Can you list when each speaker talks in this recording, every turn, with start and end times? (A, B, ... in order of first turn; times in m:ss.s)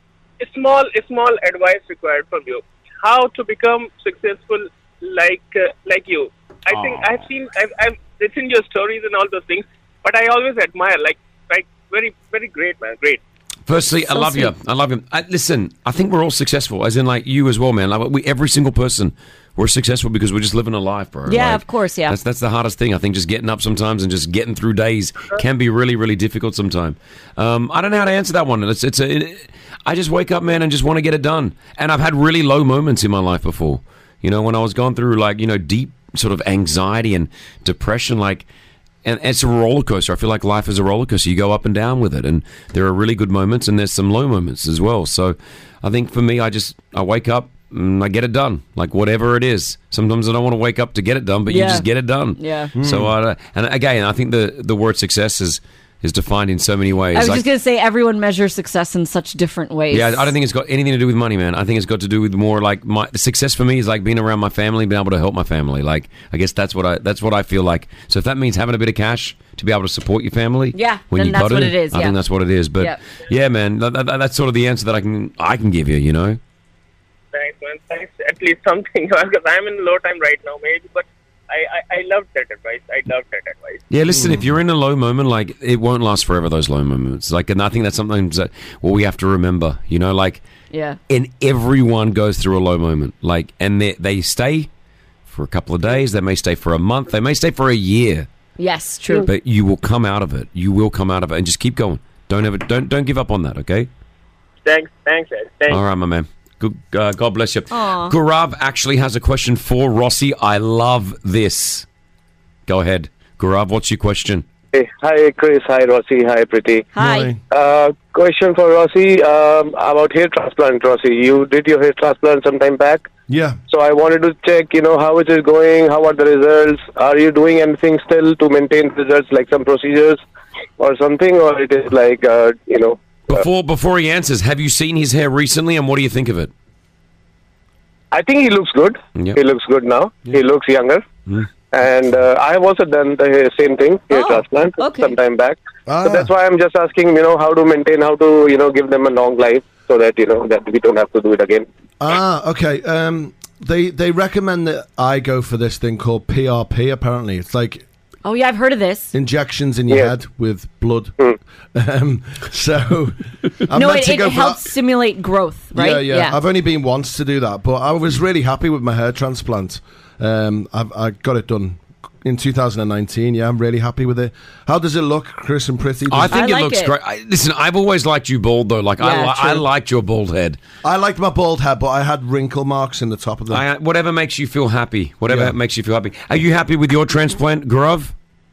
0:00.4-0:13.2 A
0:06.8-0:07.0 B
0:13.7-0:38.4 B
0:14.1-0:14.5 C
0:21.3-0:22.2 C
0:39.0-0:57.4 B
0:51.5-0:52.7 C
0:52.8-0:53.1 D
0:57.1-1:00.3 C
0:59.9-1:16.4 B
1:10.7-1:12.2 C
1:17.3-1:23.8 A
1:23.9-1:30.4 B
1:24.1-1:24.5 D
1:30.7-1:31.0 C
1:31.1-1:34.7 B
1:35.3-1:38.3 B
1:38.6-1:39.3 C
1:39.2-1:43.9 B
1:44.6-1:45.8 A
1:45.7-1:51.8 B
1:47.7-1:48.1 C
1:52.7-1:54.4 B
1:54.7-1:56.9 E
1:56.9-1:57.3 C
1:57.0-1:57.4 D
1:57.5-2:03.1 E
2:03.3-2:03.6 D
2:03.7-2:10.2 E
2:10.8-2:13.4 E
2:13.3-2:16.5 B
2:18.1-2:21.0 E
2:21.7-2:31.6 E
2:24.1-2:25.1 C
2:25.8-2:26.3 D
2:32.0-2:37.8 D
2:38.2-2:39.1 C
2:39.1-2:41.1 D
2:41.7-2:44.7 D
2:43.7-2:46.4 C
2:45.7-2:56.4 D
2:56.1-3:00.6 B
2:56.3-2:56.9 C
2:59.0-2:59.6 C
3:00.8-3:03.6 D
3:03.5-3:08.1 B
3:05.3-3:05.5 D